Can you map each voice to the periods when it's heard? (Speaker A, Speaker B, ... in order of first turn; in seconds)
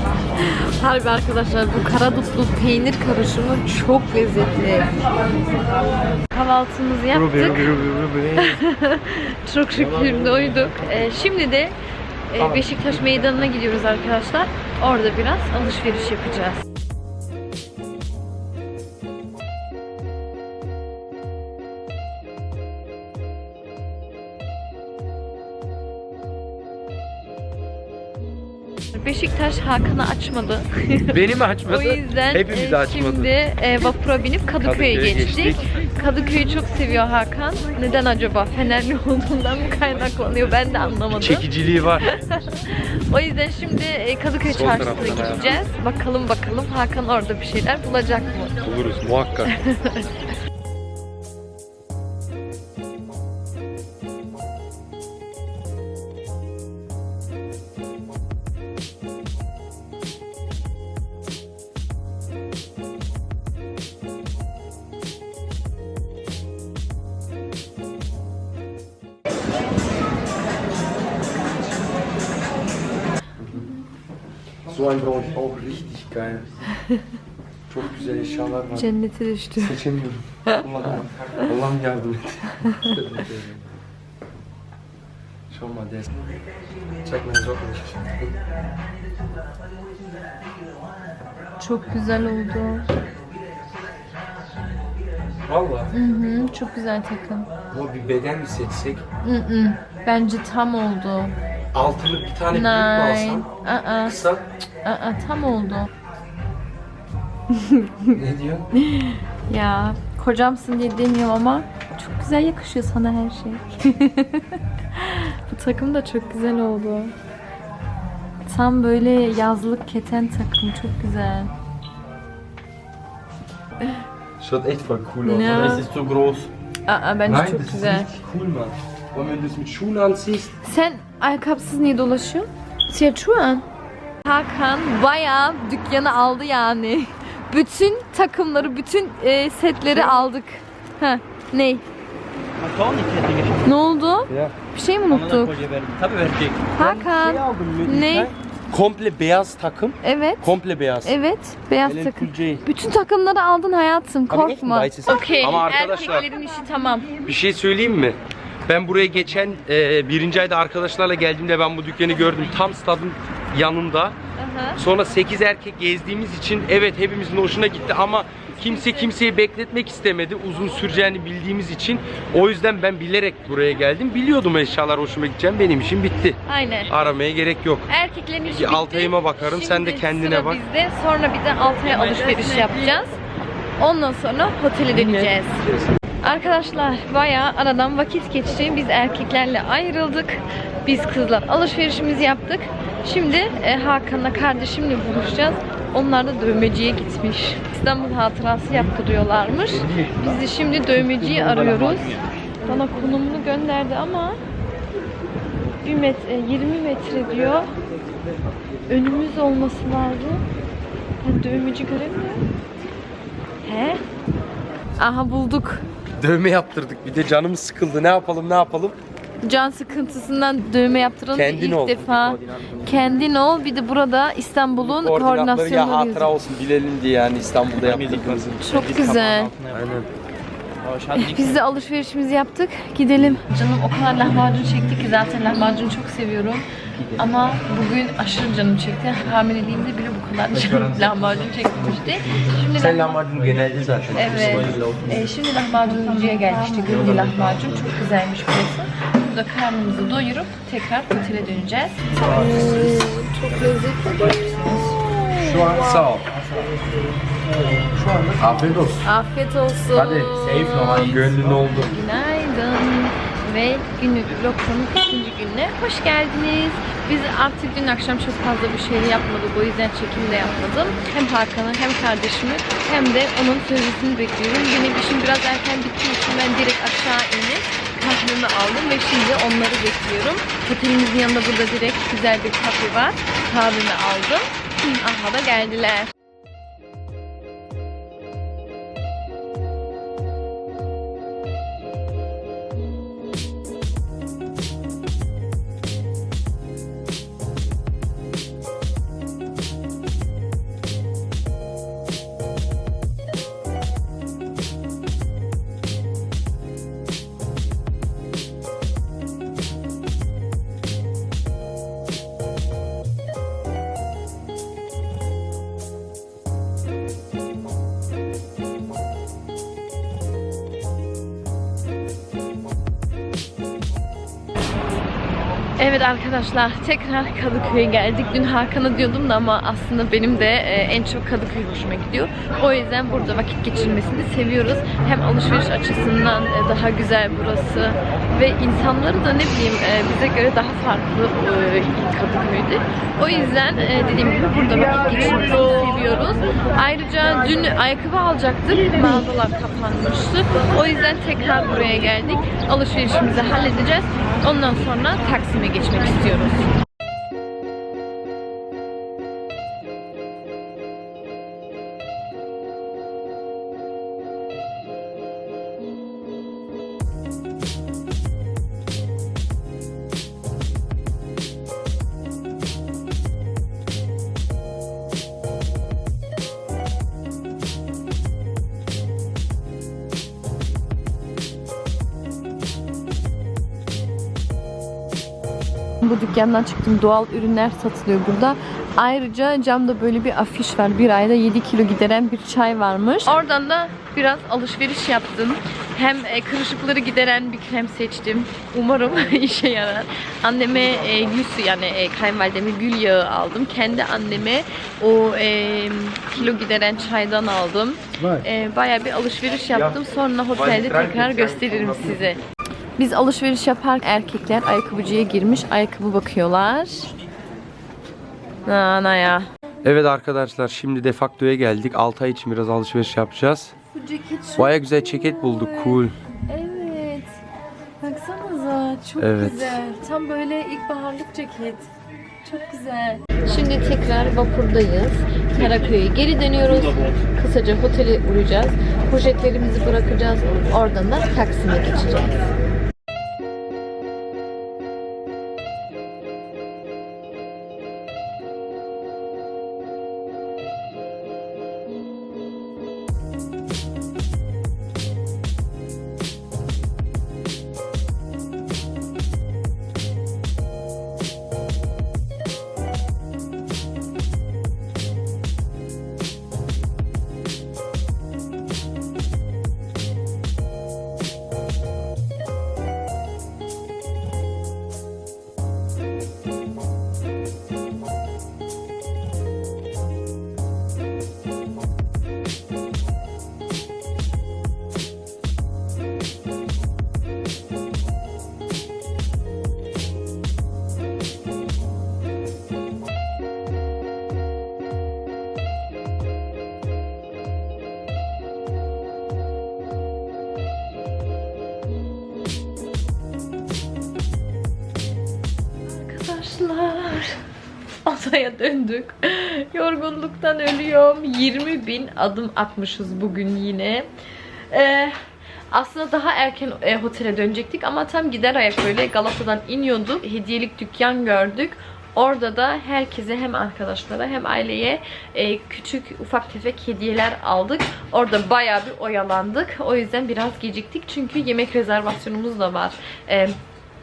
Speaker A: 0.4-5.0, 6.3-7.7, 8.3-11.8, 12.3-16.6, 28.9-41.5, 42.0-48.5, 49.5-50.1, 76.7-77.1, 78.7-79.8, 82.6-82.9, 91.6-92.8, 95.9-97.5, 99.2-101.3, 102.5-104.2, 104.8-105.9, 107.5-108.2, 108.7-117.1, 118.5-121.5, 125.2-125.9, 126.8-128.1, 130.6-133.6, 134.2-141.8, 143.6-145.6, 146.8-148.3, 150.0-157.2, 164.4-164.8, 168.5-169.1, 176.4-176.9, 177.9-183.2, 183.8-185.7, 186.2-204.4, 205.8-207.7, 208.9-210.4, 211.2-212.5, 213.6-214.0, 215.0-215.8, 219.4-226.3, 228.6-229.5, 231.1-243.2, 244.1-256.1, 259.0-286.1, 325.8-356.7, 386.0-412.4, 413.0-417.1, 418.6-419.4, 423.9-427.4, 428.0-431.9, 432.4-442.3, 505.9-507.4, 508.0-514.1, 514.7-515.2, 515.7-533.5
Speaker B: 7.1-8.6, 31.1-33.3, 34.6-35.6, 41.2-42.1, 44.4-45.6, 48.6-49.5, 73.4-73.7, 74.7-76.7, 77.7-78.9, 79.6-83.7, 85.5-86.1, 87.0-88.3, 95.5-95.9, 97.7-99.0, 101.7-103.5, 104.0-104.4, 108.1-108.7, 124.4-126.5, 127.3-130.5, 139.9-140.2, 144.3-144.5, 146.0-151.2, 151.8-152.6, 154.3-156.3, 157.2-164.2, 164.8-177.9, 178.4-180.6, 184.9-185.9, 216.2-219.0, 221.3-222.3, 224.8-228.6, 229.7-230.1, 242.7-245.1, 255.4-256.4, 257.7-259.1, 259.9-262.0, 408.2-408.4, 409.7-410.0, 410.5-412.2, 419.8-423.7, 424.5-426.1, 429.2-429.8
Speaker C: 142.6-143.7, 145.1-146.8, 201.1-202.2, 222.1-222.8, 227.8-229.8, 230.8-231.7, 244.1-245.0, 246.8-247.3